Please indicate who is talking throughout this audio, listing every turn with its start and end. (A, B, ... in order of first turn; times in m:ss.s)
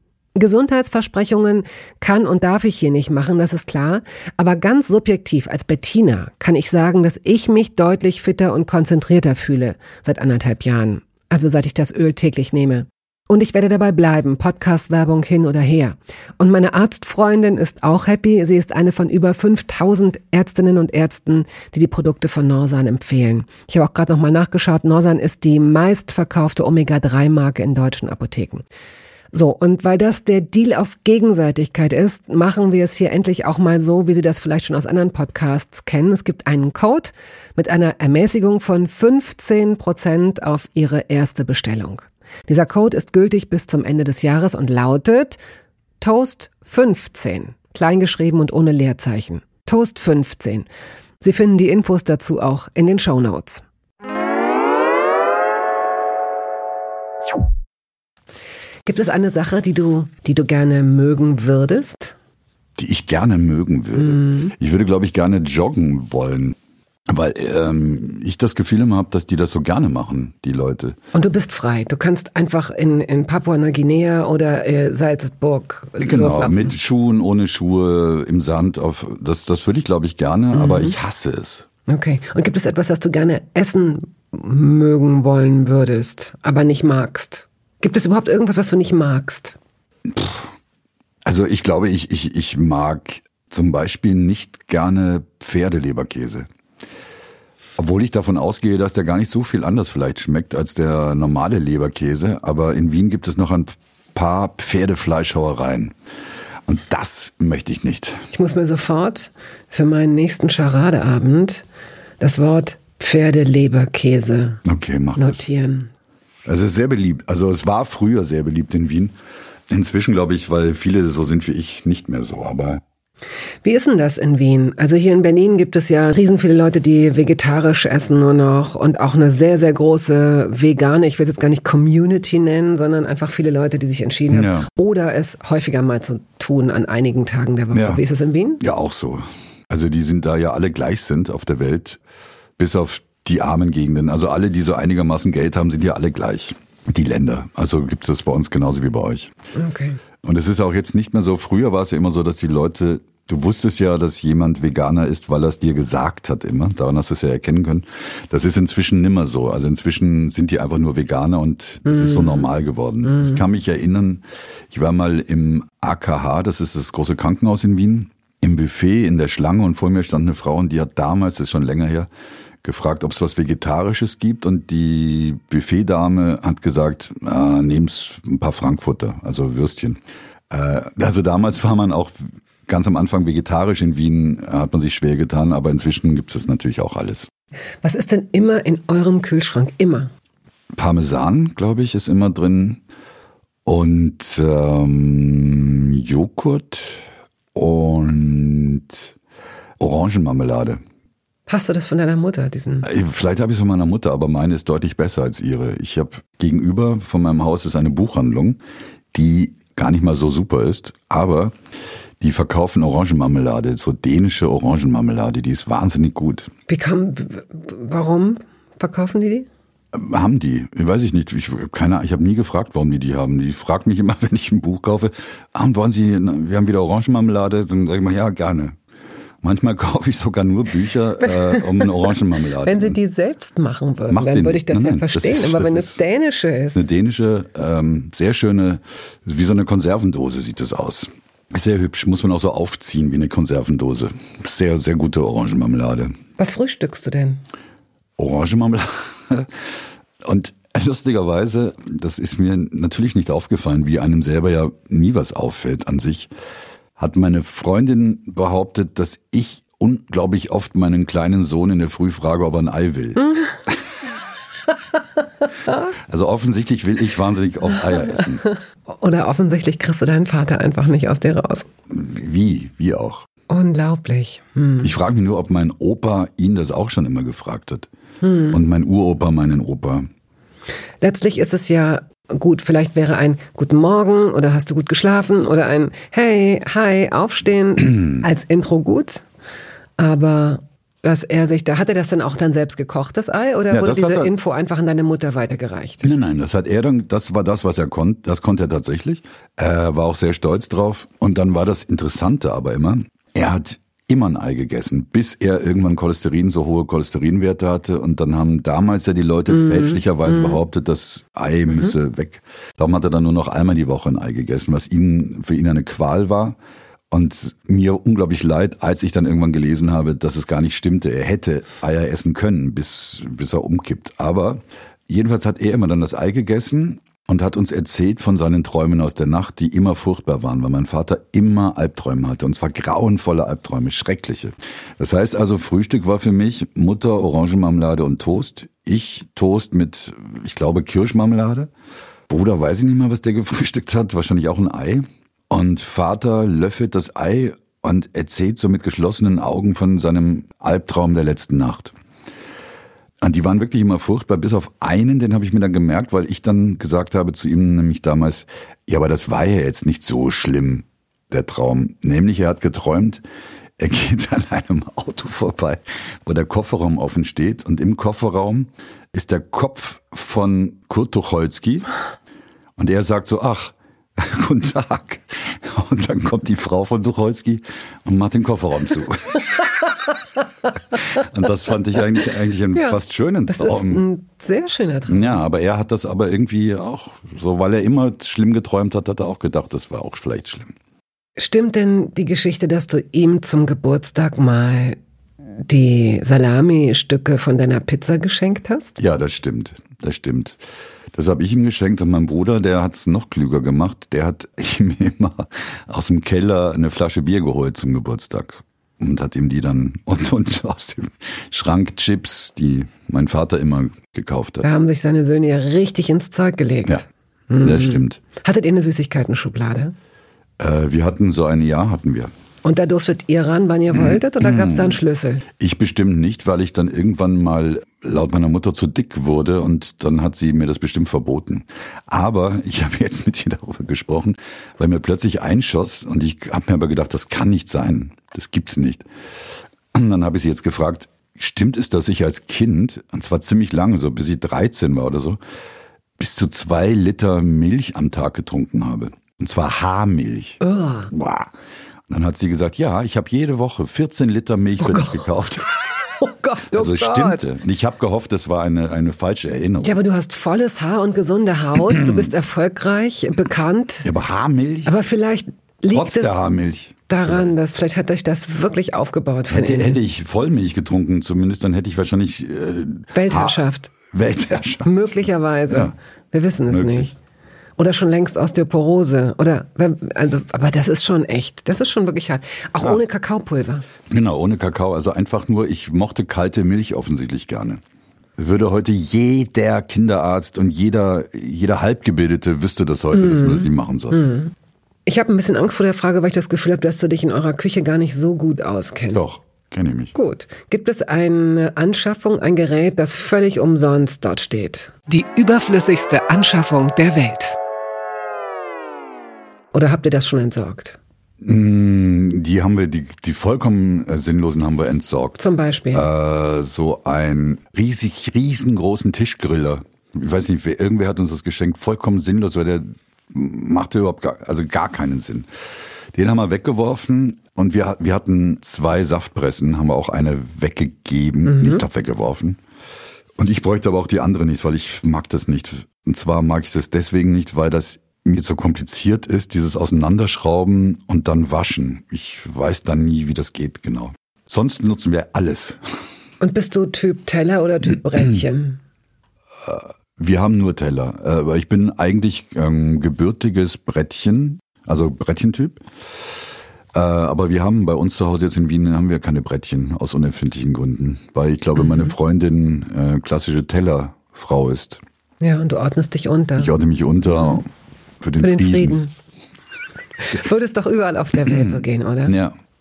0:00.4-0:28.6 A
0:29.3-0:45.4 A
0:46.0-0:50.7 A
0:51.2-0:53.6 A
0:58.8-1:02.2 A
1:02.8-1:06.6 B
1:04.0-1:04.5 A
1:07.1-1:11.0 B
1:11.1-1:16.7 A
1:16.0-1:21.7 B
1:20.5-1:21.0 A
1:21.9-1:29.6 A
1:30.1-1:30.5 B
1:31.2-1:36.5 B
1:37.8-1:45.9 B
1:46.6-1:48.2 B
1:48.3-1:51.6 A
1:52.2-1:54.6 A
1:54.6-1:55.4 B
1:55.2-1:55.9 A
1:56.4-1:59.1 B
1:59.7-2:02.8 B
2:03.6-2:18.6 A
2:14.3-2:14.7 B
2:17.7-2:18.0 B
2:18.6-2:22.0 B
2:22.6-2:29.3 B
2:29.6-2:30.0 A
2:30.2-2:52.1 B
2:41.9-2:42.5 A
2:43.1-2:43.4 A
2:52.6-3:02.1 B
3:02.6-3:07.3 B
3:07.8-3:10.1 A
3:10.7-3:12.8 B
3:13.6-3:19.1 B
3:19.8-3:20.8 B
3:21.5-3:22.9 A
3:22.8-3:28.6 B
3:29.1-3:31.5 B
3:32.2-3:36.5 B
3:36.7-3:39.5 A
3:39.9-3:48.8 B
3:49.4-3:53.0 B
3:51.2-3:52.0 A
3:52.6-3:56.8 A
3:54.1-3:56.0 B
3:56.7-4:06.1 B
4:06.4-4:07.4 A
4:08.2-4:09.7 B
4:10.2-4:16.3 B
4:17.0-4:23.8 B
4:26.1-4:28.4 B
4:28.9-4:31.7 A
4:31.9-4:33.3 B
4:33.5-4:34.9 A
4:34.8-4:37.9 B
4:38.2-4:38.6 A
4:38.5-4:40.1 B
4:41.0-4:49.2 A
4:47.9-4:48.2 B
4:50.0-4:56.1 A
4:53.7-4:54.3 B
4:56.0-5:16.6 B
5:09.5-5:10.6 A
5:17.1-5:41.7 B
5:42.3-5:51.9 B
5:53.2-6:03.2 B
6:03.8-6:11.9 B
6:12.8-6:19.6 B
6:20.9-6:24.0 B
6:22.7-6:25.4 A
6:25.1-6:30.7 B
6:31.4-6:35.0 A
6:35.6-6:39.0 A
6:39.0-6:40.6 B
6:41.1-6:54.7 B
6:54.6-6:59.9 A
6:57.6-6:58.2 B
7:00.6-7:02.3 B
7:02.6-7:05.4 A
7:03.9-7:05.0 B
7:05.6-7:19.0 B
7:19.9-7:25.4 B
7:26.2-7:31.5 B
7:30.6-7:31.1 A
7:32.1-7:35.6 B
7:34.8-7:37.4 A
7:36.7-7:40.0 B
7:39.8-7:44.1 A
7:41.9-7:42.3 B
7:44.0-7:44.9 B
7:44.8-7:46.5 A
7:45.9-7:47.5 B
7:47.1-7:50.0 A
7:49.5-7:55.9 B
7:53.1-7:53.9 A
7:54.8-7:57.1 A
7:56.7-7:57.1 B
7:57.8-8:03.8 A
8:04.1-8:07.8 B
8:08.4-8:14.2 B
8:13.1-8:14.5 A
8:15.0-8:19.2 A
8:19.1-8:20.1 B
8:20.1-8:27.6 A
8:29.7-8:31.0 A
8:31.4-8:45.5 B
8:35.4-8:36.1 A
8:46.1-8:52.6 B
8:51.4-8:51.8 A
8:53.4-9:05.8 B
9:06.4-9:08.8 A
9:09.6-9:15.8 B
9:16.9-9:25.0 B
9:25.4-9:26.7 A
9:26.6-9:27.7 B
9:28.2-9:29.0 B
9:28.4-9:29.1 A
9:30.2-9:32.4 A
9:31.4-9:32.6 B